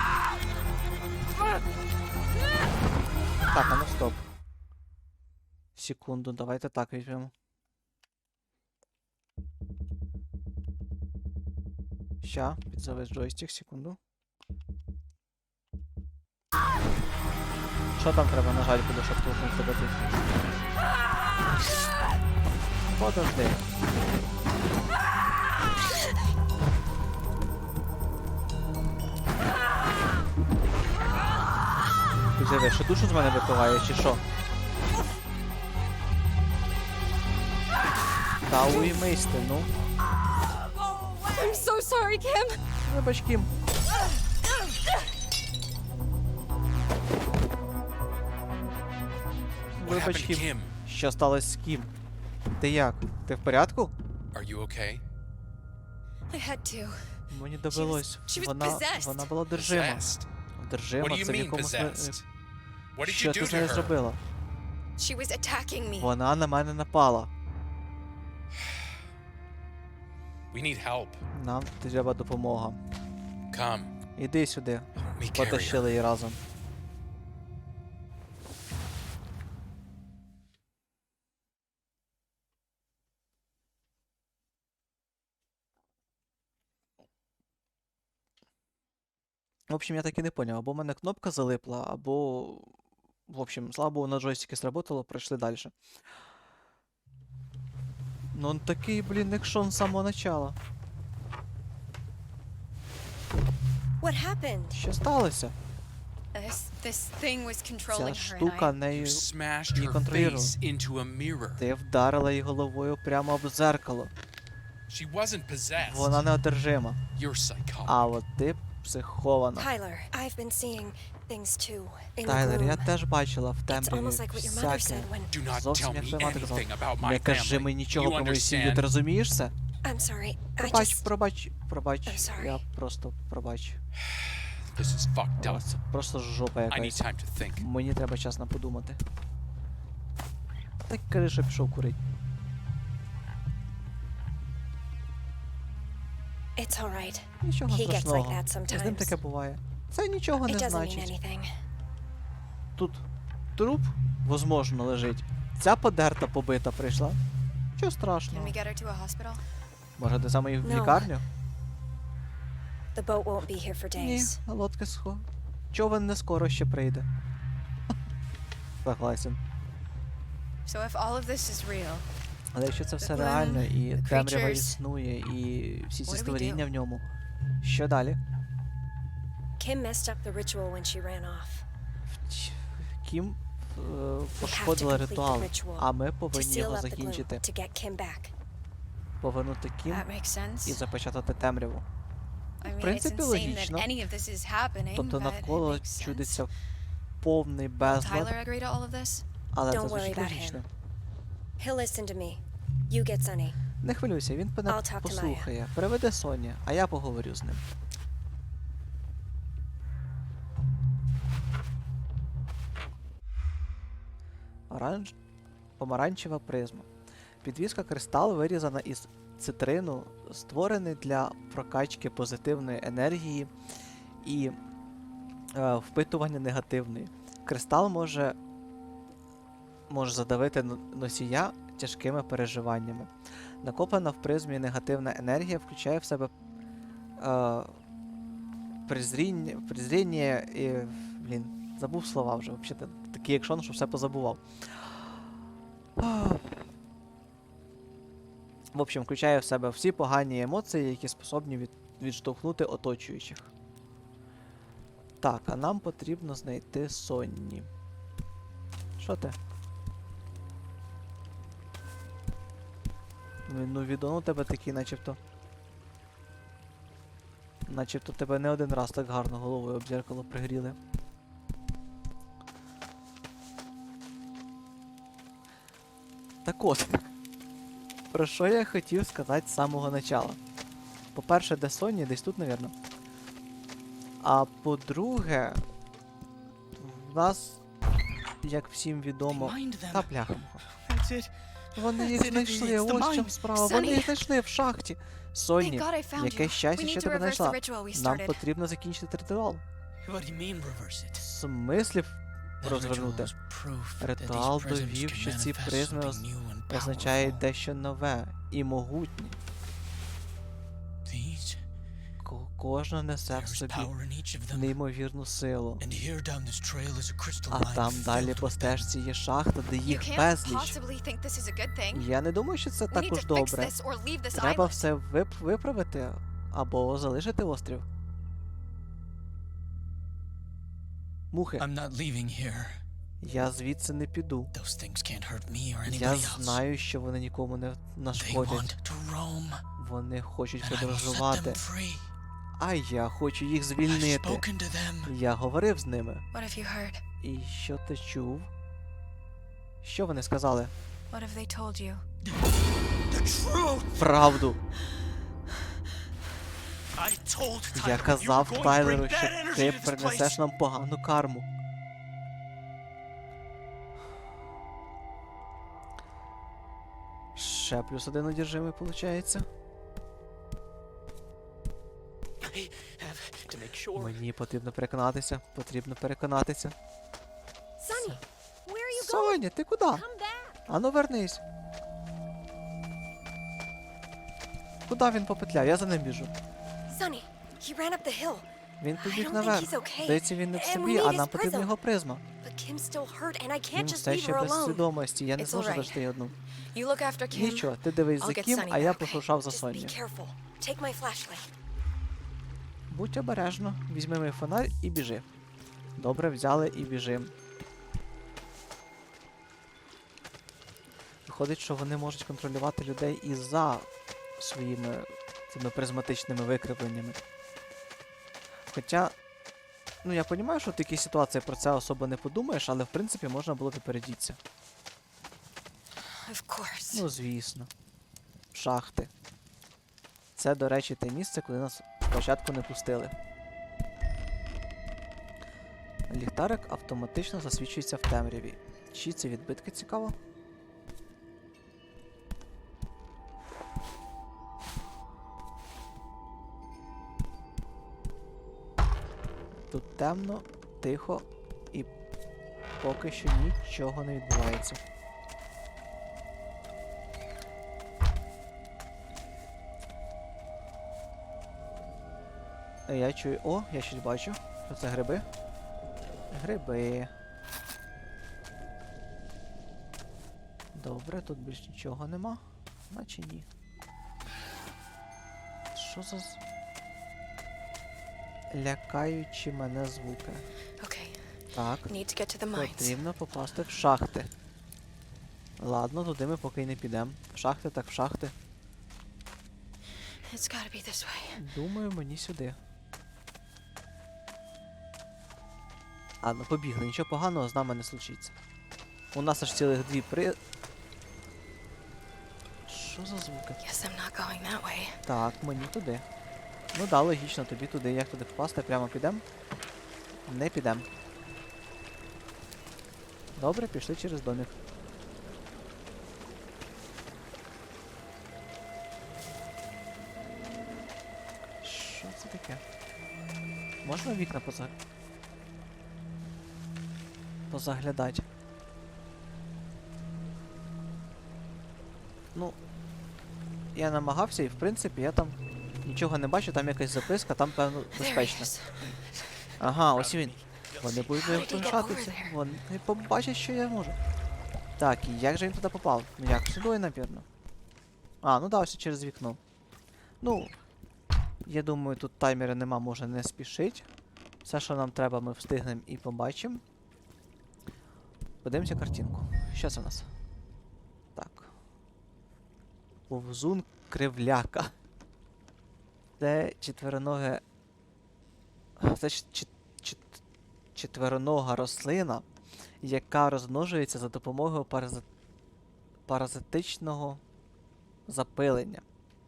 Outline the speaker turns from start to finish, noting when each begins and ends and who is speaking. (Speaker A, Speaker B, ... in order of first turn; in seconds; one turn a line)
Speaker A: 3.5-4.2
Speaker A: 5.8-7.3
Speaker A: 12.2-14.0
Speaker A: 18.0-20.1
Speaker A: 22.9-23.6
Speaker A: 32.3-34.2
Speaker A: 38.5-39.7
Speaker B: 41.2-42.6
Speaker A: 42.9-43.5
Speaker A: 49.8-51.9
Speaker C: 49.8-50.7
Speaker A: 52.6-53.9
Speaker C: 54.3-55.0
Speaker B: 56.3-57.0
Speaker A: 57.3-62.2
Speaker B: 57.7-59.3
Speaker C: 59.5-60.2
Speaker C: 61.0-62.2
Speaker C: 63.0-64.0
Speaker A: 63.0-64.2
Speaker B: 65.0-66.1
Speaker A: 66.0-67.3
Speaker C: 70.5-71.2
Speaker A: 71.3-72.8
Speaker C: 73.5-73.9
Speaker A: 74.2-76.4
Speaker C: 75.0-75.9
Speaker A: 89.7-92.7
Speaker A: 93.3-95.7
Speaker A: 98.3-100.5
Speaker D: 104.0-104.8
Speaker A: 104.7-105.5
Speaker B: 106.3-108.7
Speaker A: 107.9-110.6
Speaker C: 108.9-111.7
Speaker A: 111.6-114.1
Speaker C: 114.9-116.2
Speaker A: 115.8-117.0
Speaker C: 117.1-118.2
Speaker A: 117.8-119.7
Speaker D: 119.5-122.9
Speaker A: 122.2-129.5
Speaker D: 123.7-125.3
Speaker C: 125.3-128.9
Speaker D: 129.8-131.1
Speaker A: 130.6-133.8
Speaker D: 132.1-132.6
Speaker C: 134.7-135.6
Speaker A: 135.4-137.1
Speaker C: 136.7-137.7
Speaker A: 137.6-139.0
Speaker A: 140.9-142.0
Speaker D: 146.6-149.2
Speaker A: 147.4-151.2
Speaker D: 150.4-151.5
Speaker A: 152.8-153.0
Speaker A: 153.6-157.2
Speaker A: 157.8-158.6
Speaker B: 158.3-159.4
Speaker A: 160.0-161.2
Speaker D: 160.6-161.1
Speaker D: 162.9-164.4
Speaker A: 163.9-167.1
Speaker A: 168.8-169.4
Speaker B: 170.7-172.0
Speaker A: 172.5-177.0
Speaker B: 173.0-174.8
Speaker B: 176.1-176.7
Speaker A: 177.6-178.2
Speaker D: 179.6-181.7
Speaker A: 182.1-187.4
Speaker D: 184.4-188.3
Speaker A: 189.2-190.1
Speaker B: 189.9-190.8
Speaker A: 190.6-191.8
Speaker B: 192.6-196.4
Speaker A: 192.7-193.9
Speaker A: 194.9-196.5
Speaker A: 197.2-198.3
Speaker B: 197.8-199.2
Speaker A: 199.5-200.7
Speaker D: 199.7-200.6
Speaker D: 201.6-203.6
Speaker A: 203.8-207.6
Speaker D: 204.7-205.5
Speaker A: 214.7-215.1
Speaker A: 215.8-216.9
Speaker A: 217.4-223.5
Speaker A: 224.2-224.6
Speaker A: 225.5-228.4
Speaker A: 229.9-233.1
Speaker A: 233.6-236.3
Speaker A: 237.2-237.7
Speaker A: 238.9-244.4
Speaker A: 246.0-246.6
Speaker A: 248.7-253.5
Speaker A: 255.2-257.7
Speaker A: 259.0-259.4
Speaker A: 263.5-265.2
Speaker A: 267.7-270.8
Speaker A: 276.4-277.1
Speaker A: 278.1-280.4
Speaker A: 281.1-282.7
Speaker A: 284.2-285.6
Speaker A: 286.8-287.6
Speaker A: 288.4-290.6
Speaker E: 289.3-290.1
Speaker E: 290.6-293.9
Speaker A: 291.7-299.6
Speaker B: 293.6-294.2
Speaker B: 295.6-298.4
Speaker E: 300.0-301.3
Speaker A: 301.2-303.3
Speaker E: 302.6-307.4
Speaker A: 304.0-309.4
Speaker E: 311.1-311.6
Speaker A: 312.2-313.9
Speaker E: 313.3-314.8
Speaker A: 314.5-315.8
Speaker E: 315.8-318.9
Speaker A: 317.5-320.8
Speaker B: 319.8-322.1
Speaker A: 321.9-323.7
Speaker B: 322.9-324.9
Speaker A: 324.3-327.8
Speaker A: 331.3-331.6
Speaker E: 331.6-332.8
Speaker A: 333.2-334.5
Speaker E: 334.5-336.6
Speaker A: 335.8-338.7
Speaker E: 338.2-339.6
Speaker A: 339.8-341.6
Speaker E: 340.6-342.1
Speaker A: 342.6-344.4
Speaker E: 343.8-345.1
Speaker A: 345.0-346.2
Speaker B: 346.3-347.0
Speaker A: 347.2-348.5
Speaker A: 349.8-350.7
Speaker B: 351.1-352.0
Speaker E: 352.2-354.4
Speaker A: 354.0-354.6
Speaker E: 356.9-360.4
Speaker A: 357.7-361.5
Speaker A: 367.4-369.4
Speaker E: 372.4-374.2
Speaker A: 373.9-376.7
Speaker D: 377.8-380.6
Speaker A: 377.9-378.2
Speaker A: 378.9-380.0
Speaker A: 380.7-381.4
Speaker A: 384.9-386.3
Speaker D: 386.9-391.7
Speaker A: 388.8-392.2
Speaker D: 392.4-394.8
Speaker A: 393.7-396.3
Speaker B: 395.4-396.0
Speaker B: 396.7-399.2
Speaker A: 397.3-399.9
Speaker D: 399.3-401.5
Speaker A: 402.9-405.2
Speaker A: 406.0-407.3
Speaker A: 411.2-417.2
Speaker A: 418.7-419.1
Speaker A: 420.0-424.4
Speaker B: 426.1-427.1
Speaker A: 426.9-427.7
Speaker A: 428.5-429.1
Speaker A: 430.4-433.1
Speaker A: 436.1-440.1
Speaker A: 449.7-451.9
Speaker A: 452.8-454.8
Speaker A: 462.9-465.2
Speaker A: 466.3-467.1
Speaker A: 470.7-473.4
Speaker A: 475.7-476.4
Speaker A: 478.5-480.4
Speaker B: 480.8-481.2
Speaker A: 481.5-481.9
Speaker B: 481.9-483.0
Speaker A: 482.5-484.3
Speaker A: 485.6-488.3
Speaker B: 490.2-491.4
Speaker A: 491.3-492.6
Speaker A: 496.2-498.3
Speaker A: 499.1-500.4
Speaker A: 502.7-503.6
Speaker B: 503.6-505.0
Speaker A: 505.1-506.0
Speaker A: 506.7-509.2
Speaker A: 510.3-510.9
Speaker A: 513.4-514.5
Speaker A: 521.6-522.6
Speaker A: 523.8-524.7
Speaker A: 527.5-528.2
Speaker A: 533.7-538.5
Speaker B: 537.9-539.2
Speaker A: 539.6-544.0
Speaker E: 539.6-541.8
Speaker B: 541.2-542.3
Speaker A: 544.8-547.2
Speaker A: 548.2-549.4
Speaker A: 550.2-550.5
Speaker A: 551.5-553.9
Speaker A: 554.4-556.6
Speaker A: 558.4-560.1
Speaker A: 561.1-561.5
Speaker A: 563.1-564.7
Speaker A: 566.2-567.4
Speaker A: 568.8-570.2
Speaker A: 570.7-572.2
Speaker A: 572.8-575.0
Speaker A: 576.1-577.2
Speaker A: 578.1-578.8